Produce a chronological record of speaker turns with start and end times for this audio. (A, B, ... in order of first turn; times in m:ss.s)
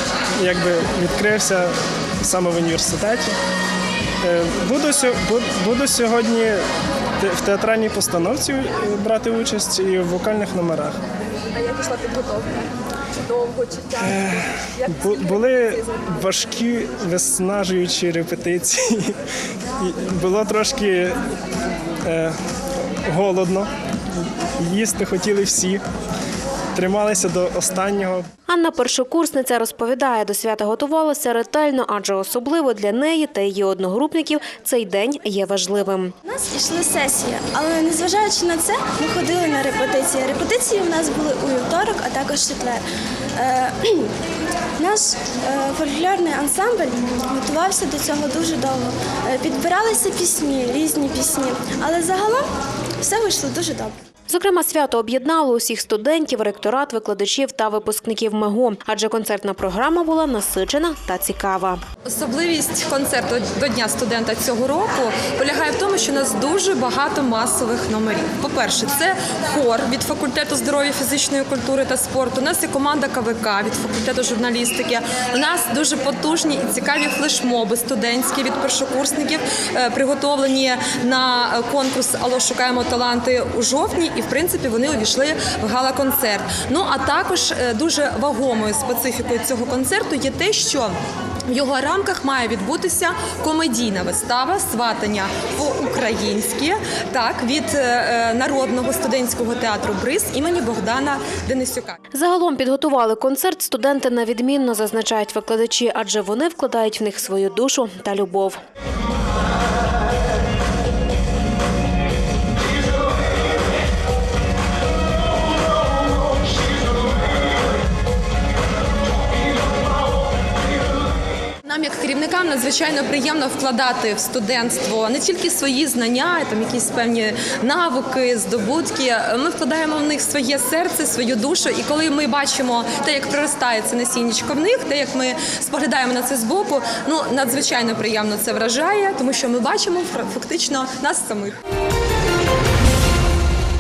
0:00.4-0:03.3 A
0:04.2-0:06.6 A
0:07.2-0:11.0 A
0:13.9-0:19.2 A
0:19.8-0:21.2 A
0:22.0-0:22.4 A
0:23.1-0:23.7 A
0:24.6-0:25.8 A
0:26.8-0:28.3 A
0:28.5-0:36.1 B
0:36.4-0:42.8 C
0:46.4-0:48.9 C
0:49.5-0:52.4 C
0:53.0-0:53.9 C
0:54.3-1:01.8 B
1:02.1-1:07.5 D
1:08.2-1:30.9 D
1:31.5-1:41.9 D
1:42.1-1:48.6 B
2:01.7-2:21.5 D